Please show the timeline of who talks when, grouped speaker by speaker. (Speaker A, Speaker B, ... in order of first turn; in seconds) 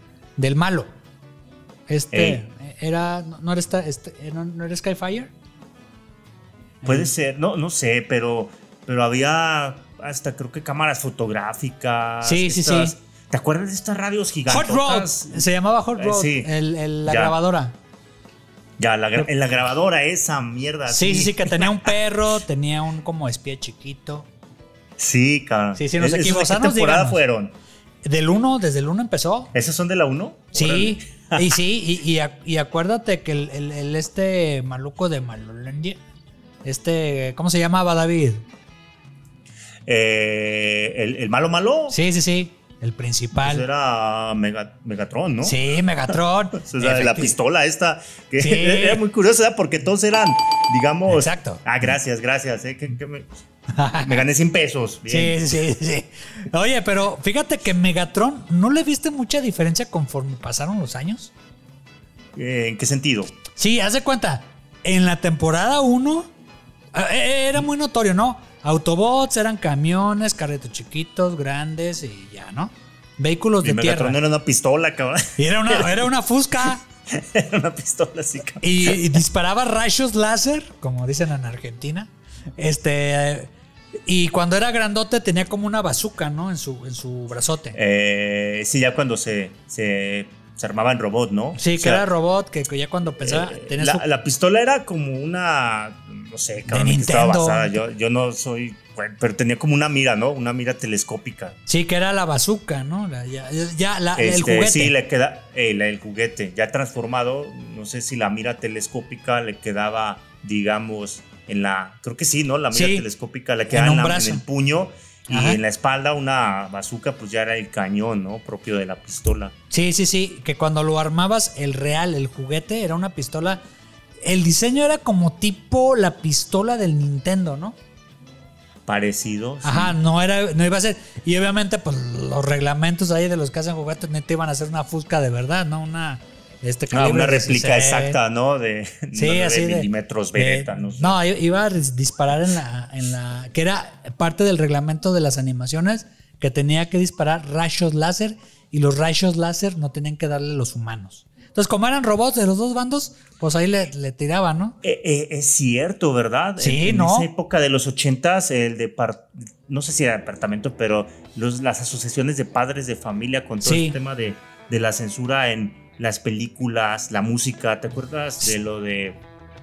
Speaker A: 0.4-0.9, 1.9-5.3, 6.8-7.1, 12.2-12.9, 14.5-17.8, 20.9-24.3, 25.8-27.2, 28.0-29.5, 30.5-36.0, 36.6-38.4, 41.9-43.6, 45.4-47.3, 48.4-49.0, 51.1-51.6, 53.7-54.2, 55.1-61.3, 63.5-66.3, 66.9-74.2, 75.4-76.8, 78.6-83.5, 84.0-87.8, 91.5-94.0, 96.7-97.8, 101.7-104.9, 112.7-113.0, 113.7-114.4, 115.3-115.6, 119.7-123.6, 124.2-127.8, 129.6-138.2, 139.1-154.8, 156.6-157.3, 163.6-163.9
Speaker B: 2.1-2.4, 6.8-15.4, 16.0-16.5, 17.1-17.3, 18.8-21.9, 25.0-27.5, 29.5-31.6, 39.9-42.0, 43.3-45.6, 46.5-53.3, 54.0-55.4, 62.3-63.4, 73.6-76.1, 77.1-79.2, 87.7-92.1, 93.2-101.6, 104.1-119.5, 128.8-130.0, 136.9-141.2, 154.8-169.2